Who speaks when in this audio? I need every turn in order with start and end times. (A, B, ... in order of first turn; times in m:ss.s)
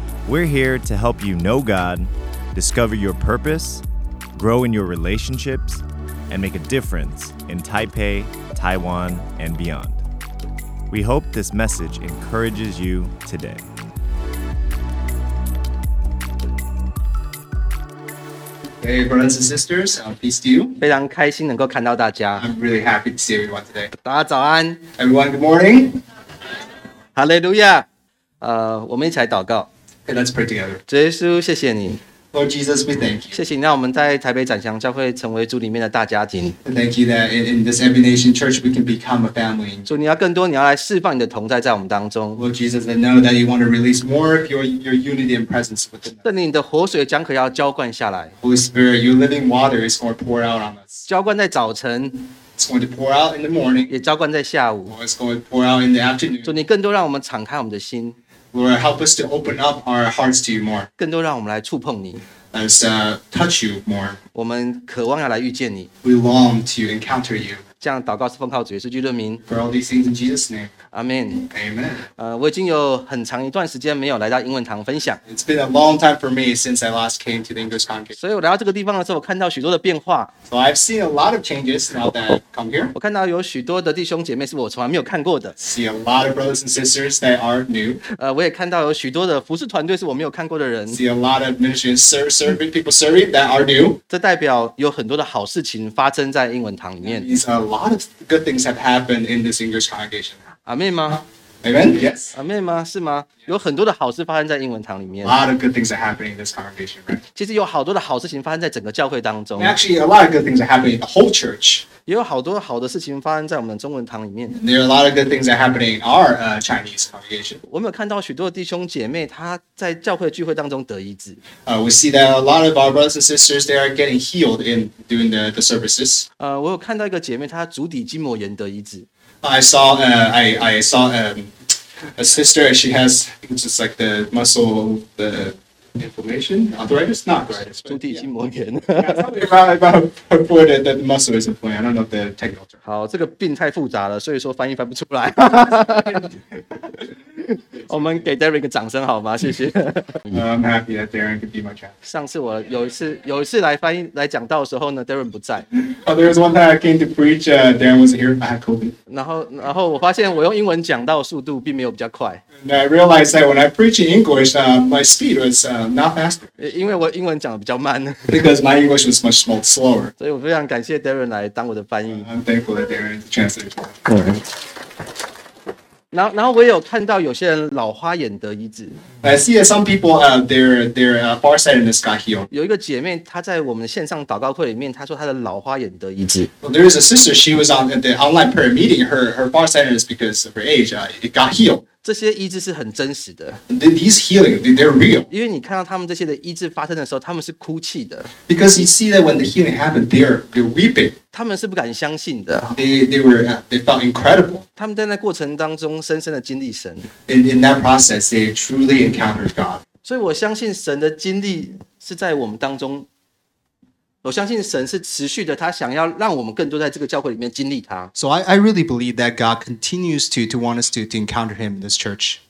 0:00.2-0:10.0 A
0:10.9-0:13.6 A
0:18.8-0:20.8 B
0:20.8-0:22.5 C
0:22.4-0:23.9 B
0:24.0-0:24.8 C
0:25.0-0:26.0 B
0:27.2-0:27.9 C
0:28.4-0:29.7 C
0:30.1-0:30.8 B
0:30.9-0:32.0 C
0:32.3-0:33.4 B
0:33.3-0:36.6 C
0:36.6-0:39.9 B
0:39.9-0:42.4 C
0:42.4-0:46.2 B
0:46.2-0:48.4 C
0:48.4-0:51.1 B
0:51.1-0:52.3 C
0:52.6-0:53.9 B
0:53.9-0:54.9 C
0:54.9-0:56.5 B
0:56.4-0:58.2 C
0:58.5-1:00.9 B
1:01.0-1:02.2 C
1:02.5-1:04.2 B
1:04.4-1:05.9 C
1:06.0-1:07.6 B
1:07.8-1:09.4 C
1:09.5-1:10.7 B
1:10.9-1:11.5 C
1:11.4-1:12.0 B
1:12.2-1:15.2 C
1:15.3-1:18.2 B
1:18.2-1:20.3 C
1:20.5-1:22.9 B
1:22.9-1:25.6 C
1:25.6-1:28.0 B
1:28.2-1:31.0 C
1:30.9-1:34.0 B
1:34.1-1:37.3 C
1:37.0-1:40.4 B
1:40.7-1:41.2 C
1:41.6-1:42.4 B
1:42.3-1:45.4 C
1:45.2-1:47.2 B
1:47.4-1:49.8 C
1:49.6-1:51.9 B
1:52.1-1:54.6 C
1:54.5-1:57.6 B
1:57.7-2:01.4 C
2:01.6-2:06.3 B
2:06.4-2:09.1 C
2:09.4-2:11.5 B
2:12.2-2:18.3 B
2:17.9-2:19.4 C
2:19.0-2:22.8 B
2:22.8-2:26.4 C
2:27.4-2:30.2 C
2:30.3-2:31.9 B
2:32.0-2:35.7 C
2:35.8-2:39.0 B
2:39.1-2:42.4 C
2:42.6-2:46.5 B
2:46.6-2:48.4 C
2:48.3-2:50.1 B
2:50.2-2:52.3 C
2:52.1-2:54.1 B
2:54.1-2:54.4 C
2:56.1-2:59.0 C
2:59.2-3:02.5 B
3:02.5-3:06.5 C
3:06.6-3:11.8 B
3:12.0-3:13.6 C
3:13.7-3:15.3 B
3:15.3-3:18.3 C
3:18.3-3:21.2 B
3:21.3-3:22.7 C
3:22.6-3:24.6 B
3:24.8-3:27.1 C
3:27.3-3:29.8 B
3:30.0-3:33.1 C
3:34.2-3:38.1 C
3:38.2-3:42.4 B